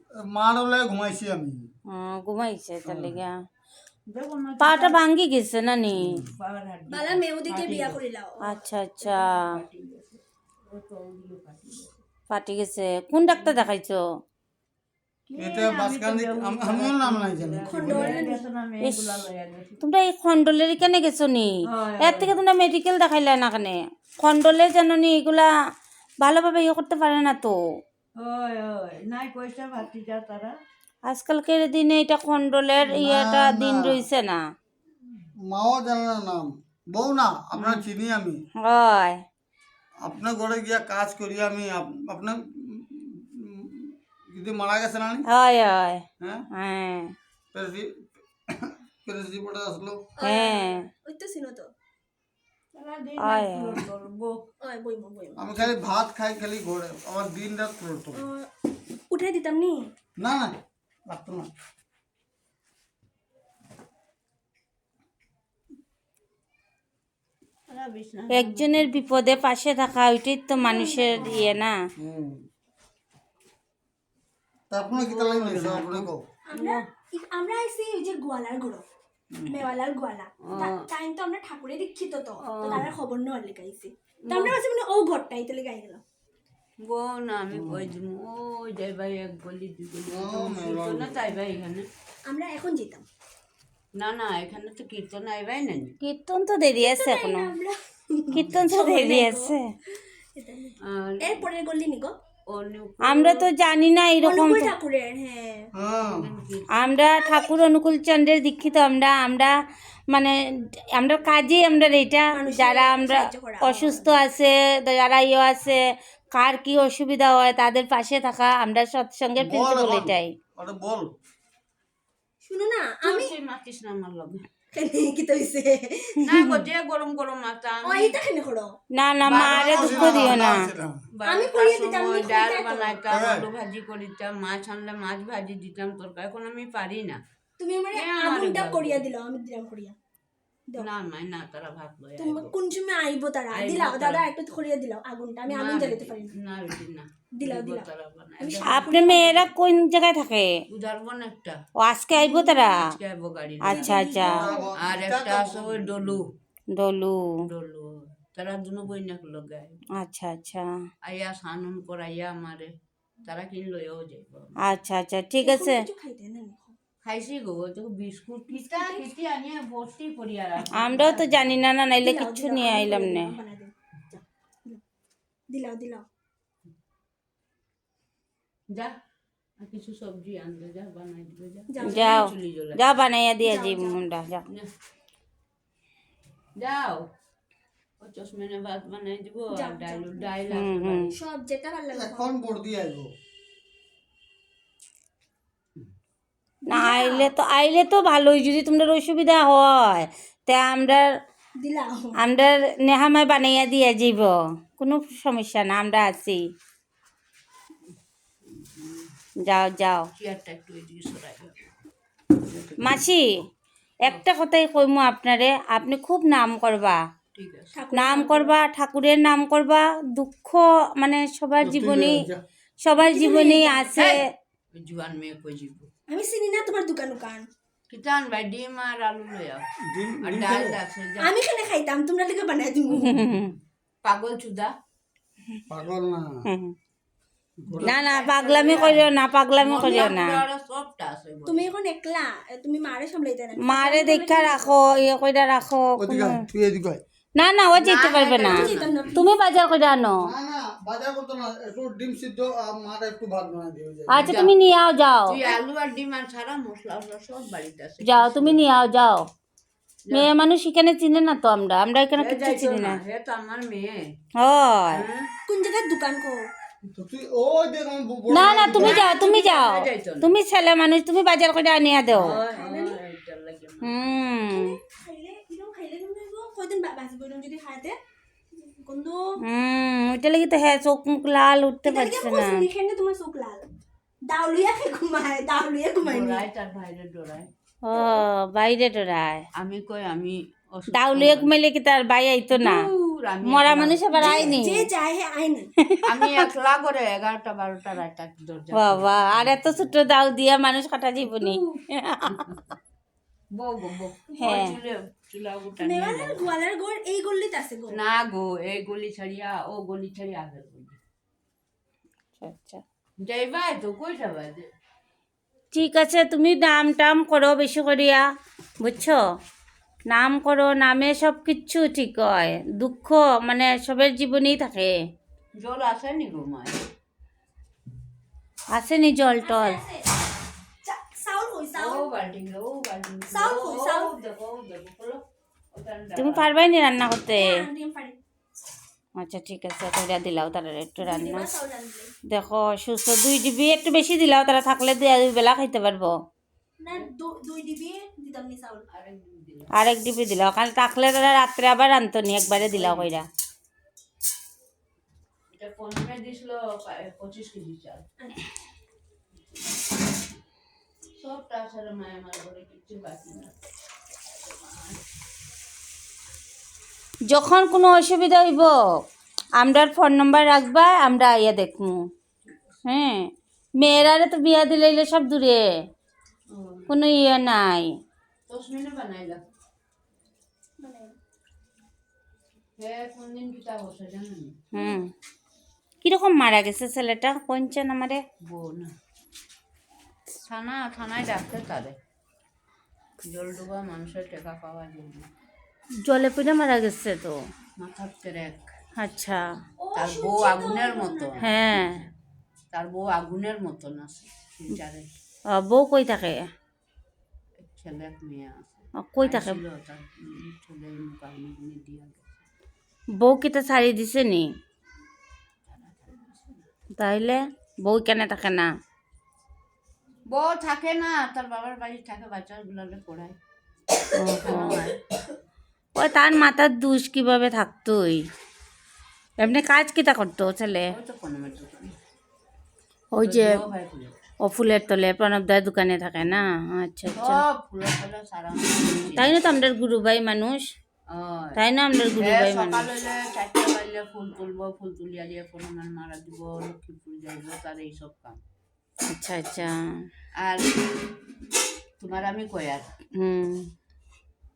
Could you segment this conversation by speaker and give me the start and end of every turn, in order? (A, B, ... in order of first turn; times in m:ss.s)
0:00.1-0:01.6 A
0:01.9-0:03.4 B
0:02.8-0:03.2 A
0:04.1-0:05.0 C
0:04.6-0:06.2 B
0:06.1-0:08.0 C
0:06.9-0:08.4 D
0:08.4-0:09.2 B
0:09.0-0:12.0 C
0:12.3-0:14.0 B
0:13.1-0:13.7 C
0:15.3-0:19.8 C
0:15.4-0:18.2 A
0:17.7-0:18.4 D
0:18.8-0:19.2 B
0:19.8-0:25.5 B
0:21.7-0:22.3 C
0:26.2-0:27.6 B
0:28.2-0:30.5 C
0:31.0-0:34.4 B
0:32.9-0:34.0 A
0:35.4-0:38.4 A
0:37.6-0:37.8 B
0:38.6-0:39.2 B
0:40.0-0:45.2 A
0:45.3-0:47.1 B
0:46.2-0:46.4 A
0:47.5-0:50.0 A
0:50.2-0:51.7 D
0:50.2-0:50.8 B
0:52.7-0:54.4 C
0:53.2-0:53.8 B
0:54.6-0:55.4 D
0:55.4-0:58.2 A
0:58.1-0:58.5 D
0:59.1-0:59.9 D
1:00.2-1:01.5 A
1:07.7-1:08.8 C
1:08.3-1:11.8 B
1:10.5-1:11.5 D
1:12.0-1:12.4 A
1:14.7-1:16.2 A
1:14.9-1:16.8 C
1:16.5-1:18.8 D
1:19.4-1:26.0 D
1:20.4-1:20.7 C
1:22.4-1:22.9 C
1:24.2-1:24.6 C
1:26.8-1:31.9 C
1:27.5-1:27.9 A
1:30.1-1:31.2 A
1:32.3-1:33.0 D
1:34.0-1:35.9 C
1:36.0-1:37.5 B
1:36.8-1:42.1 D
1:38.3-1:39.7 B
1:38.4-1:38.6 A
1:40.8-1:41.5 C
1:42.5-1:43.4 C
1:43.0-1:44.7 B
1:44.2-1:45.7 D
1:45.7-1:46.3 A
1:46.0-1:47.0 C
1:46.7-1:49.5 B
1:47.2-1:47.5 D
1:50.9-1:55.8 B
1:52.3-1:54.0 D
1:56.3-2:00.3 B
1:59.4-2:01.1 A
2:02.4-2:03.3 D
2:03.0-2:04.4 C
2:04.7-2:06.2 D
2:06.2-2:08.2 C
2:07.8-2:08.7 D
2:08.9-2:10.6 B
2:09.2-2:10.6 C
2:09.3-2:11.0 A
2:11.1-2:17.2 C
2:11.2-2:13.0 D
2:13.1-2:13.4 A
2:17.6-2:20.0 D
2:17.9-2:19.0 C
2:20.8-2:22.5 C
2:22.2-2:26.3 D
2:23.5-2:24.3 C
2:25.5-2:29.1 C
2:27.4-2:27.9 D
2:28.4-2:29.5 D
2:28.6-2:30.5 B
2:30.7-2:31.6 C
2:31.8-2:32.8 B
2:32.1-2:32.5 D
2:32.5-2:33.9 C
2:33.6-2:34.5 B
2:33.7-2:36.2 A
2:33.8-2:34.7 D
2:34.7-2:36.3 C
2:36.7-2:37.3 B
2:37.4-2:39.8 C
2:39.9-2:40.7 B
2:41.0-2:42.7 C
2:43.2-2:44.6 C
2:44.6-2:45.8 B
2:45.4-2:46.8 D
2:47.0-2:51.6 C
2:48.5-2:49.0 D
2:50.7-2:53.3 B
2:52.0-2:54.8 D
2:55.5-2:56.0 D
2:59.6-3:02.9 C
3:01.7-3:02.2 D
3:01.8-3:04.4 B
3:03.4-3:04.0 D
3:06.6-3:07.0 C
3:08.0-3:11.1 C
3:09.5-3:10.3 D
3:10.5-3:11.1 B
3:11.1-3:12.3 D
3:11.9-3:13.1 A
3:16.7-3:17.3 D
3:16.7-3:21.1 B
3:21.6-3:22.2 D
3:22.2-3:26.4 B
3:28.4-3:29.1 C
3:29.4-3:30.1 B
3:30.1-3:31.7 C
3:32.5-3:32.8 A
3:32.8-3:33.3 B
3:34.0-3:37.0 B
3:37.3-3:37.8 C
3:37.7-3:38.5 D
3:37.9-3:42.2 B
3:41.6-3:42.4 A
3:42.8-3:44.2 B
3:43.0-3:43.9 D
3:44.0-3:44.2 C
3:44.8-3:45.9 C
3:46.1-3:47.5 D
3:47.9-3:49.6 C
3:49.8-3:50.8 A
3:50.2-3:51.4 C
3:51.2-3:53.2 D
3:53.0-3:53.5 B
3:54.0-3:54.7 C
3:55.7-3:56.4 A
3:56.4-3:56.7 B
3:57.6-4:01.7 C
3:57.7-3:57.9 A
3:57.8-4:00.4 B
3:59.8-4:00.1 D
4:01.4-4:04.8 D
4:03.6-4:06.4 B
4:06.0-4:07.0 A
4:07.4-4:10.2 B
4:07.7-4:09.1 C
4:08.4-4:09.2 D
4:10.2-4:14.3 A
4:14.1-4:15.4 B
4:14.2-4:14.5 C
4:15.3-4:18.6 C
4:18.0-4:19.2 B
4:20.1-4:23.0 B
4:22.2-4:24.0 C
4:24.4-4:25.0 B
4:24.9-4:25.3 C
4:25.5-4:26.5 D
4:26.9-4:29.1 A
4:28.3-4:32.4 B
4:28.7-4:30.3 C
4:32.1-4:34.3 C
4:32.5-4:33.0 D
4:33.8-4:34.8 B
4:34.5-4:37.9 D
4:38.6-4:39.2 D
4:39.4-4:42.6 B
4:41.8-4:43.6 D
4:44.3-4:46.4 D
4:46.0-4:47.5 C
4:47.8-4:49.4 B
4:49.6-4:51.5 C
4:50.9-4:52.8 B
4:52.5-4:54.6 C
4:53.4-4:54.8 B
4:54.2-4:55.7 D
4:55.8-4:56.4 B
4:56.0-4:59.9 C
4:58.7-5:02.4 B
5:01.4-5:01.7 C
5:03.5-5:06.5 C
5:04.4-5:04.7 B
5:05.8-5:08.0 D
5:07.9-5:11.0 C
5:12.4-5:12.8 B
5:13.2-5:14.6 C
5:15.7-5:18.2 B
5:18.8-5:19.2 B
5:20.1-5:24.9 B
5:25.5-5:26.8 C
5:28.7-5:29.8 B
5:29.4-5:30.1 D
5:30.8-5:32.0 D
5:31.7-5:35.2 C
5:33.3-5:34.1 D
5:35.7-5:36.4 C
5:36.2-5:37.5 B
5:37.3-5:38.2 D
5:39.2-5:41.5 B
5:41.0-5:42.1 D
5:42.3-5:46.1 B
5:46.8-5:48.8 D
5:48.9-5:49.7 C
5:49.7-5:53.2 B
5:52.7-5:53.2 C
5:55.5-5:58.0 C
6:01.2-6:03.5 C
6:04.5-6:05.0 C
6:07.3-6:08.7 B
6:09.6-6:12.0 B
6:12.4-6:12.8 C
6:12.8-6:15.6 B
6:16.5-6:16.9 C
6:16.9-6:17.9 B
6:18.5-6:19.4 C
6:20.8-6:21.1 D
6:22.8-6:24.5 C
6:24.7-6:25.1 B
6:26.0-6:28.2 B
6:28.4-6:28.9 C
6:30.5-6:32.0 C
6:33.2-6:35.2 C
6:36.0-6:37.4 B
6:37.8-6:38.7 C
6:39.0-6:39.5 B
6:39.8-6:41.3 D
6:39.9-6:42.1 C
6:41.4-6:41.9 B
6:42.7-6:45.1 C
6:45.5-6:46.4 B
6:47.6-6:52.4 C
6:49.0-6:49.6 B
6:53.2-6:54.5 B
6:55.7-6:56.6 C
6:57.0-6:58.7 B
7:00.3-7:03.4 C
7:04.1-7:04.8 B
7:04.4-7:05.0 C
7:06.0-7:08.2 B
7:09.4-7:10.9 B
7:10.9-7:11.9 C
7:13.1-7:13.6 B
7:13.2-7:14.2 C
7:14.4-7:17.4 B
7:17.2-7:19.4 C
7:19.1-7:20.6 B
7:21.1-7:21.6 C
7:21.6-7:22.8 B
7:22.2-7:28.4 C
7:29.1-7:29.8 B
7:30.4-7:30.8 C
7:32.0-7:32.9 C
7:33.1-7:33.7 B